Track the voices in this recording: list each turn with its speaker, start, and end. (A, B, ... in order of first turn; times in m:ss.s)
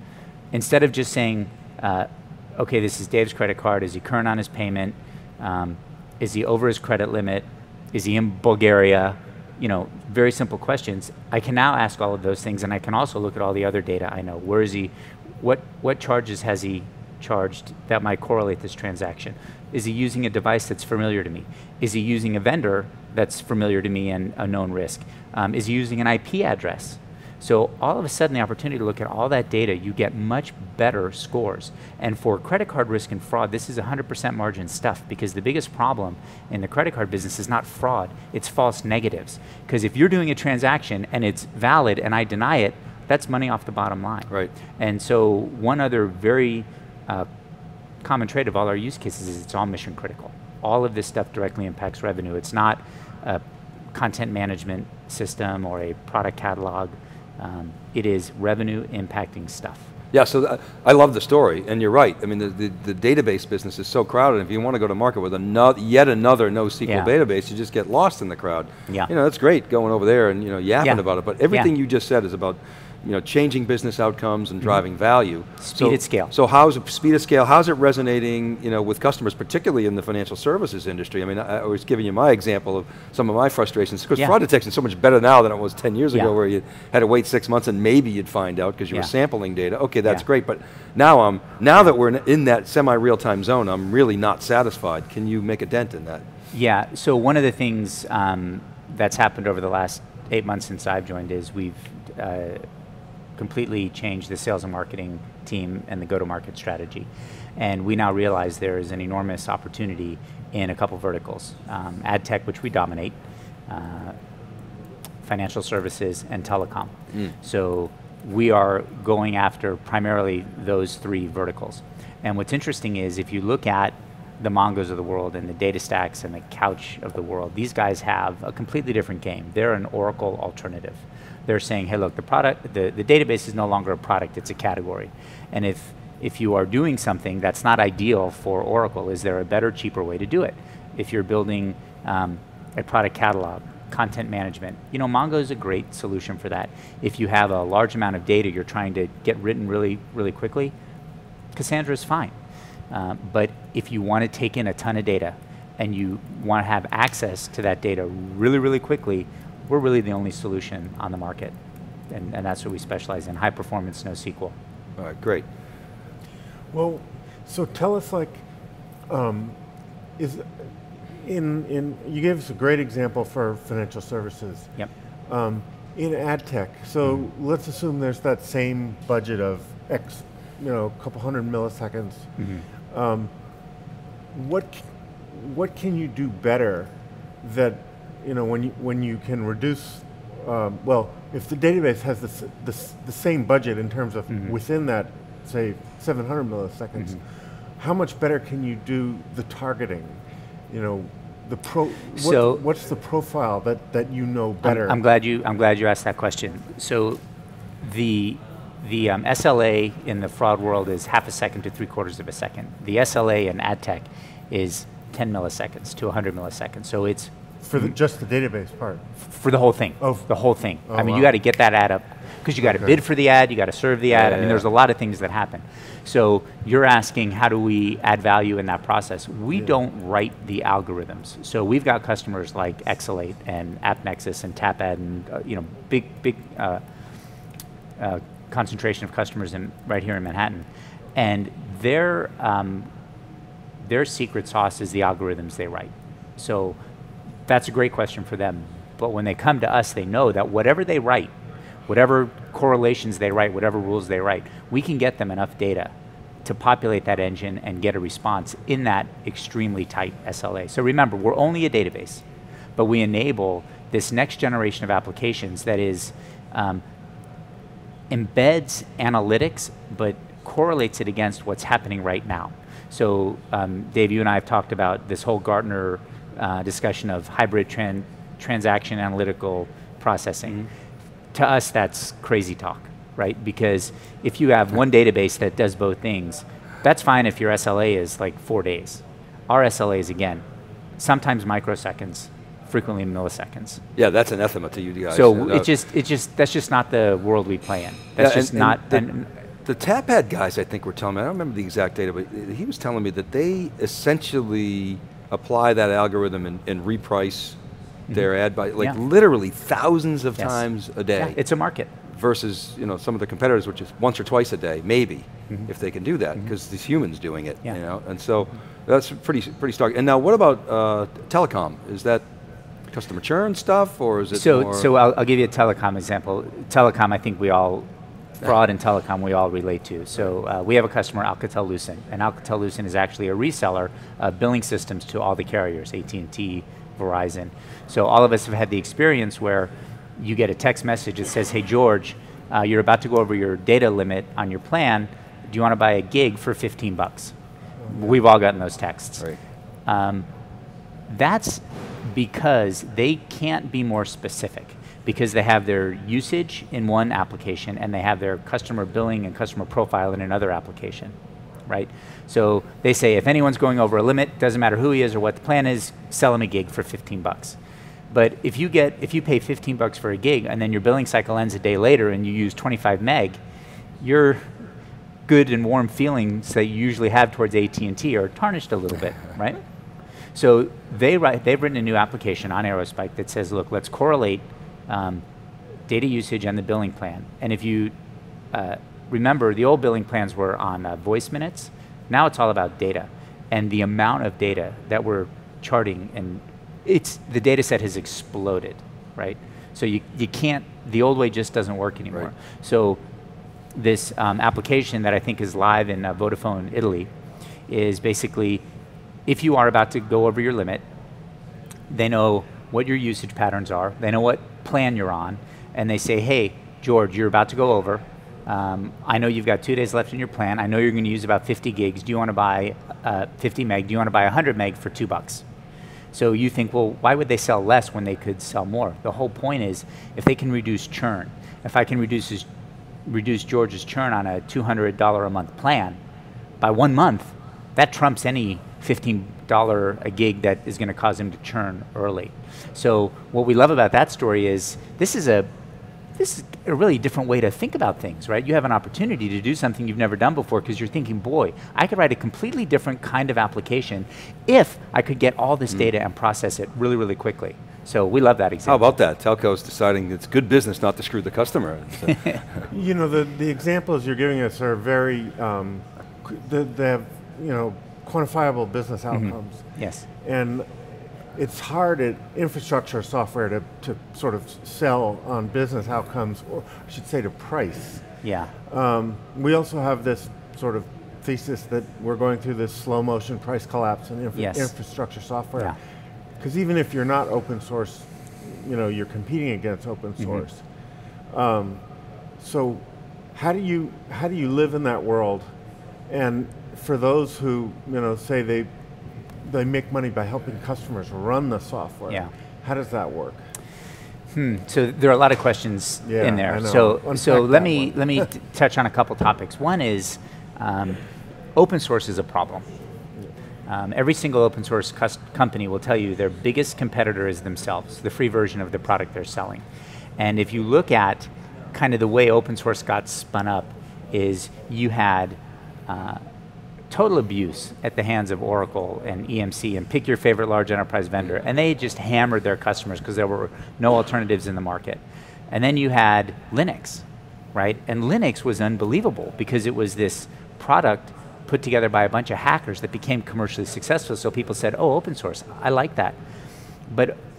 0:00.5-0:47.3 A
0:48.0-0:53.4 A
0:53.9-0:59.9 A
1:00.1-1:36.2 B
1:06.8-1:07.1 A
1:10.8-1:11.7 A
1:15.6-1:16.3 A
1:36.5-1:42.6 A
1:43.4-1:53.2 A
1:53.7-1:54.2 A
1:55.2-2:30.7 A
2:31.5-2:32.3 A
2:32.9-2:41.5 A
2:42.1-2:44.5 A
2:45.0-2:45.4 B
2:46.7-2:48.4 C
2:49.1-2:49.6 C
2:50.2-2:50.5 C
2:51.1-2:54.7 C
2:55.3-3:02.3 C
3:02.4-3:02.6 A
3:02.9-3:03.3 C
3:04.3-3:06.9 C
3:07.4-3:17.2 C
3:17.8-3:25.0 C
3:22.2-3:22.6 A
3:24.6-3:27.2 A
3:27.8-3:37.8 A
3:37.6-3:39.0 C
3:39.2-3:56.8 A
3:40.0-3:40.3 C
3:40.8-3:41.3 C
3:42.6-3:43.0 C
3:44.1-3:44.6 B
3:58.0-4:02.9 A
4:03.8-4:06.8 A
4:07.5-4:11.3 A
4:11.9-4:15.9 A
4:16.4-4:22.2 A
4:22.8-4:26.8 A
4:28.1-4:40.6 A
4:41.3-4:50.4 A
4:51.0-4:53.8 A
4:54.0-4:55.7 B
4:55.1-4:59.3 A
4:58.2-4:59.0 B
4:59.6-5:07.6 B
5:08.1-5:09.0 A
5:08.1-5:11.4 B
5:10.4-5:11.9 A
5:12.1-5:22.2 B
5:22.9-5:24.8 B
5:24.3-5:27.9 A
5:28.4-5:47.3 A
5:47.9-5:49.3 A
5:49.8-5:50.2 A
5:51.1-6:01.2 A
6:01.7-6:07.6 A
6:08.1-6:13.4 A
6:14.0-6:14.7 A
6:15.3-6:19.6 A
6:20.3-6:25.2 A
6:25.9-6:27.9 A
6:28.5-6:43.0 A
6:43.7-6:47.1 A
6:47.7-6:48.6 A
6:49.2-6:50.8 A
6:51.9-7:05.4 A
7:06.1-7:12.5 A
7:13.0-7:16.0 A
7:16.6-7:25.5 A
7:26.2-7:39.0 A
7:38.7-7:42.6 B
7:42.7-7:49.6 C
7:49.1-7:50.0 A
7:50.2-7:50.7 C
7:51.3-7:58.0 C
7:58.2-7:58.5 A
7:58.7-8:05.8 C
8:04.3-8:04.7 A
8:06.4-8:10.6 C
8:10.2-8:10.4 A
8:11.3-8:11.8 C
8:12.4-8:12.8 C
8:13.3-8:15.5 C
8:16.1-8:18.7 C
8:19.4-8:23.4 C
8:24.3-8:31.0 A
8:26.0-8:28.2 C
8:31.5-8:32.6 A
8:33.7-8:39.6 A
8:40.2-8:46.2 A
8:46.9-9:06.2 A
9:06.9-9:07.2 A